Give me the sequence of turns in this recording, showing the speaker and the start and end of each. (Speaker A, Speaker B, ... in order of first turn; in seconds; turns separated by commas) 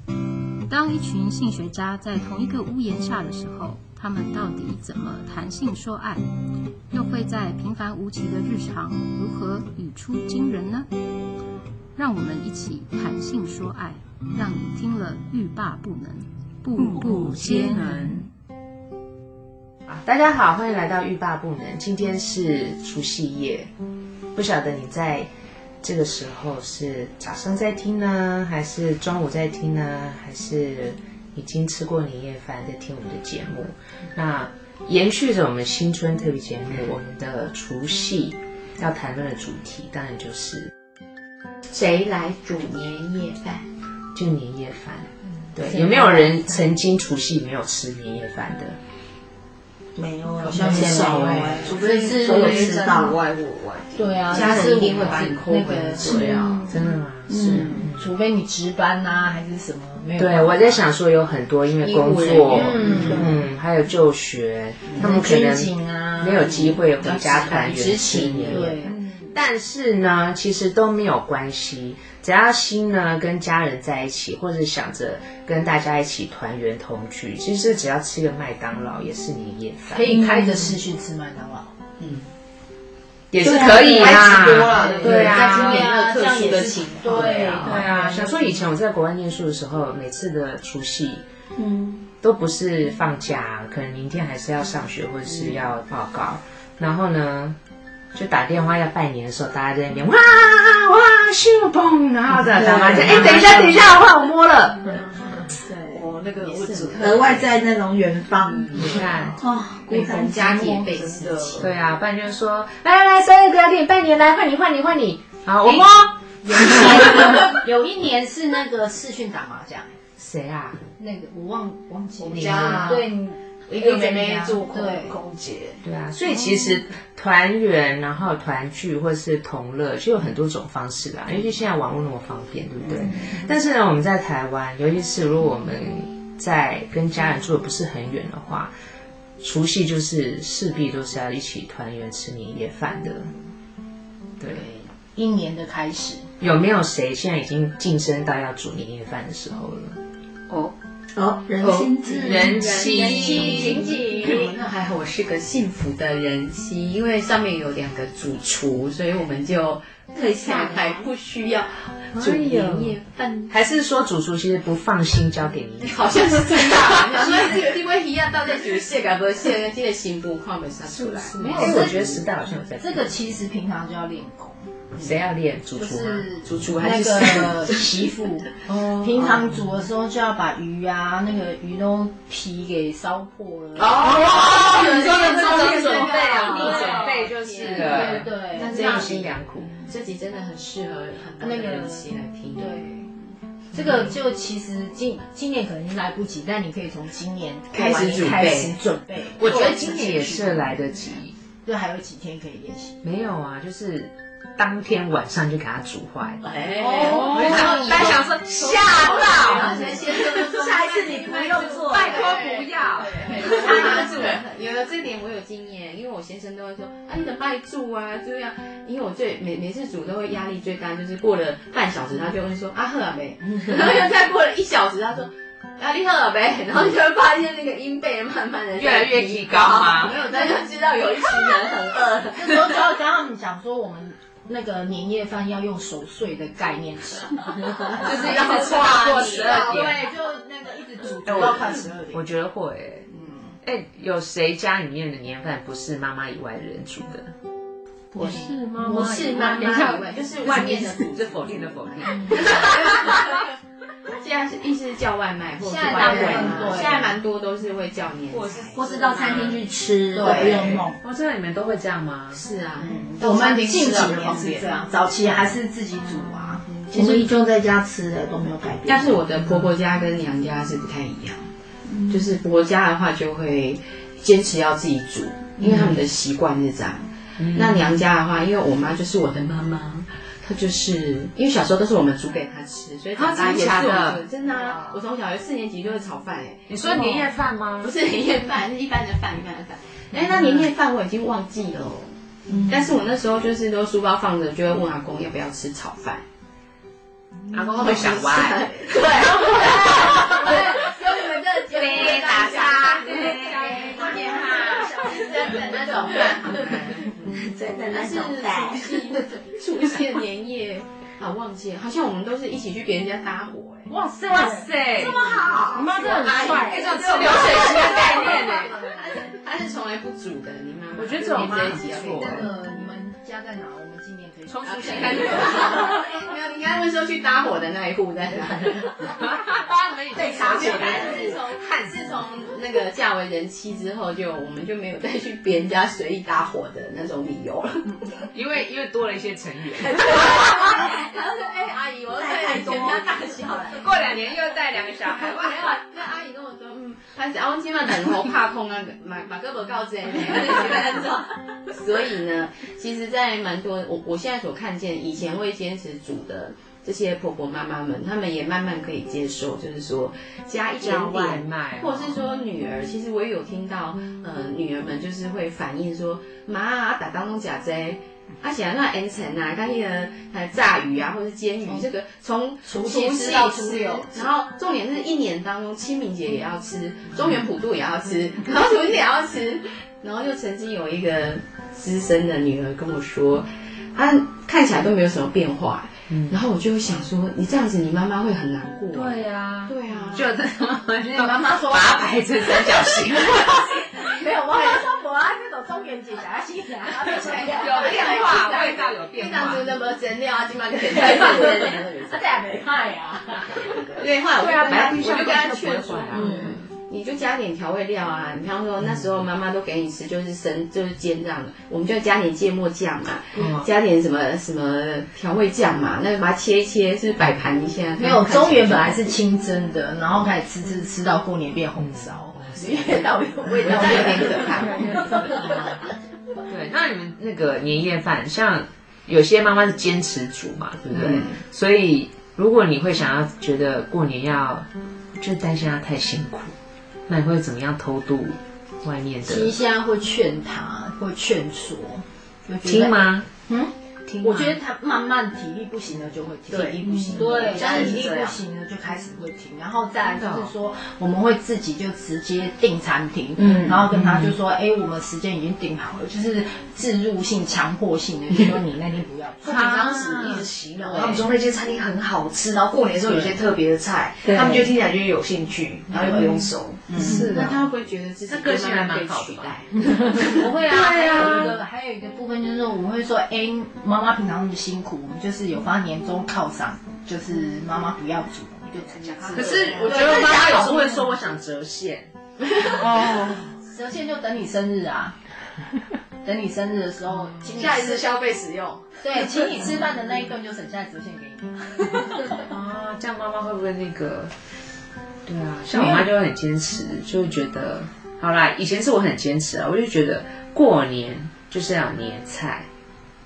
Speaker A: 0.7-6.3, Speaker A: 6.9-10.9, Speaker A: 12.0-18.3, Speaker B: 19.9-23.7, Speaker B: 24.4-25.3, Speaker B: 25.8-40.7, Speaker C: 41.7-43.7, Speaker B: 44.1-48.8, Speaker C: 45.6-46.5, Speaker D: 50.0-53.2, Speaker E: 50.5-52.6, Speaker C: 50.5-51.0, Speaker B: 51.0-51.4, Speaker C: 51.6-53.1, Speaker F: 51.8-53.9, Speaker E: 54.0-56.7, Speaker C: 54.3-56.8, Speaker B: 56.5-58.1, Speaker E: 57.3-60.9, Speaker B: 60.2-80.1, Speaker C: 61.8-63.3, Speaker E: 62.5-63.4, Speaker E: 65.0-66.7, Speaker C: 67.0-69.0, Speaker E: 68.2-68.9, Speaker E: 79.9-81.7, Speaker C: 82.0-82.3, Speaker B: 83.3-85.9, Speaker C: 83.4-87.9, Speaker D: 83.5-83.9, Speaker E: 83.8-88.7, Speaker B: 87.2-91.2, Speaker D: 91.6-92.0, Speaker B: 92.2-97.6, Speaker B: 98.1-105.0, Speaker C: 102.8-103.7, Speaker C: 105.9-107.4, Speaker F: 106.1-107.2, Speaker D: 107.0-110.5, Speaker B: 108.7-109.4, Speaker C: 109.8-111.7, Speaker F: 110.8-111.7, Speaker B: 111.6-117.5, Speaker E: 116.4-119.9, Speaker B: 120.2-120.8, Speaker E: 121.0-125.2, Speaker C: 122.2-123.0, Speaker B: 122.3-123.0, Speaker C: 123.7-125.7, Speaker F: 123.8-125.7, Speaker B: 125.8-138.7, Speaker B: 139.4-143.3, Speaker E: 144.5-146.3, Speaker B: 146.4-150.0, Speaker D: 151.2-152.8, Speaker E: 152.1-154.5, Speaker B: 152.2-153.9, Speaker C: 152.5-163.5, Speaker B: 162.1-163.0, Speaker B: 163.5-167.7, Speaker C: 165.8-171.8, Speaker B: 170.9-173.1, Speaker E: 171.3-172.3, Speaker E: 172.8-174.7, Speaker B: 175.0-176.3, Speaker E: 175.8-189.1, Speaker C: 176.4-177.8, Speaker C: 178.7-179.4, Speaker C: 183.8-192.8, Speaker B: 184.2-189.8, Speaker E: 191.4-193.1, Speaker E: 193.7-200.7, Speaker C: 197.7-198.8, Speaker B: 199.4-201.3, Speaker E: 201.7-203.0, Speaker B: 203.0-210.1, Speaker C: 206.4-232.8, Speaker E: 206.9-208.1, Speaker E: 209.1-210.3, Speaker D: 210.1-212.1, Speaker B: 211.8-213.9, Speaker E: 213.4-214.3, Speaker B: 228.8-230.2, Speaker E: 230.1-230.6, Speaker E: 232.3-242.2, Speaker C: 237.9-239.8, Speaker B: 238.0-240.1, Speaker B: 241.2-243.1, Speaker E: 243.1-243.6, Speaker B: 243.6-247.3, Speaker A: 248.1-250.1, Speaker E: 248.2-250.7, Speaker C: 248.8-253.4, Speaker B: 250.4-252.6, Speaker E: 252.1-253.2, Speaker C: 254.1-259.5, Speaker E: 255.6-257.2, Speaker B: 256.0-256.9, Speaker D: 256.1-256.6, Speaker B: 258.3-259.7, Speaker D: 258.7-261.0, Speaker E: 260.1-260.8, Speaker C: 260.2-260.9, Speaker B: 261.0-262.4, Speaker C: 262.3-264.7, Speaker E: 262.8-266.7, Speaker C: 266.7-267.2, Speaker D: 266.9-269.2, Speaker C: 268.9-271.5, Speaker C: 272.1-296.2, Speaker B: 275.6-276.0, Speaker B: 277.4-278.0, Speaker B: 283.1-285.0, Speaker B: 286.7-287.9, Speaker B: 290.2-290.7, Speaker B: 297.5-298.8, Speaker C: 297.7-307.3, Speaker E: 299.5-306.6, Speaker B: 301.7-304.9, Speaker D: 307.3-309.0, Speaker C: 307.9-313.9, Speaker B: 313.9-315.3, Speaker E: 314.0-314.6, Speaker D: 314.9-316.7, Speaker E: 315.2-316.8, Speaker C: 315.6-322.6, Speaker B: 316.0-318.8, Speaker E: 317.9-318.9, Speaker B: 320.9-322.5, Speaker E: 321.4-325.9, Speaker B: 324.5-325.8, Speaker C: 324.6-329.0, Speaker B: 329.0-332.0, Speaker D: 330.2-331.4, Speaker C: 330.2-338.3, Speaker B: 338.3-340.4, Speaker C: 339.9-343.9, Speaker D: 342.2-343.8, Speaker B: 343.7-345.8, Speaker C: 345.1-390.3, Speaker B: 360.8-362.2, Speaker E: 372.6-374.3, Speaker B: 386.1-386.4, Speaker B: 388.9-393.9, Speaker E: 391.1-391.8, Speaker E: 394.0-398.8, Speaker C: 397.0-402.2, Speaker B: 397.2-399.7, Speaker E: 400.9-403.8, Speaker C: 403.5-419.1, Speaker B: 404.0-406.5, Speaker E: 406.1-406.6, Speaker B: 413.4-413.7, Speaker E: 418.0-425.7, Speaker B: 421.8-422.9, Speaker C: 422.6-425.7, Speaker B: 426.5-436.5, Speaker C: 430.9-431.4, Speaker B: 437.1-439.6, Speaker E: 439.2-459.7, Speaker B: 442.6-443.3, Speaker B: 444.1-444.6, Speaker C: 446.5-448.4, Speaker B: 447.1-448.1, Speaker B: 450.0-450.5, Speaker B: 453.9-454.3, Speaker B: 459.4-461.2, Speaker D: 459.4-461.1, Speaker F: 460.6-466.9, Speaker D: 462.3-462.8, Speaker E: 466.0-466.2, Speaker C: 466.0-466.4, Speaker E: 466.9-467.4, Speaker C: 466.9-470.4, Speaker B: 466.9-467.6, Speaker B: 468.3-469.5, Speaker E: 470.1-480.4, Speaker B: 470.7-471.6, Speaker B: 479.2-482.1, Speaker C: 479.3-480.9, Speaker E: 482.9-485.2, Speaker E: 486.2-488.1, Speaker C: 487.4-489.7, Speaker E: 489.0-492.4, Speaker B: 492.0-494.3, Speaker B: 495.3-502.7, Speaker E: 495.7-496.1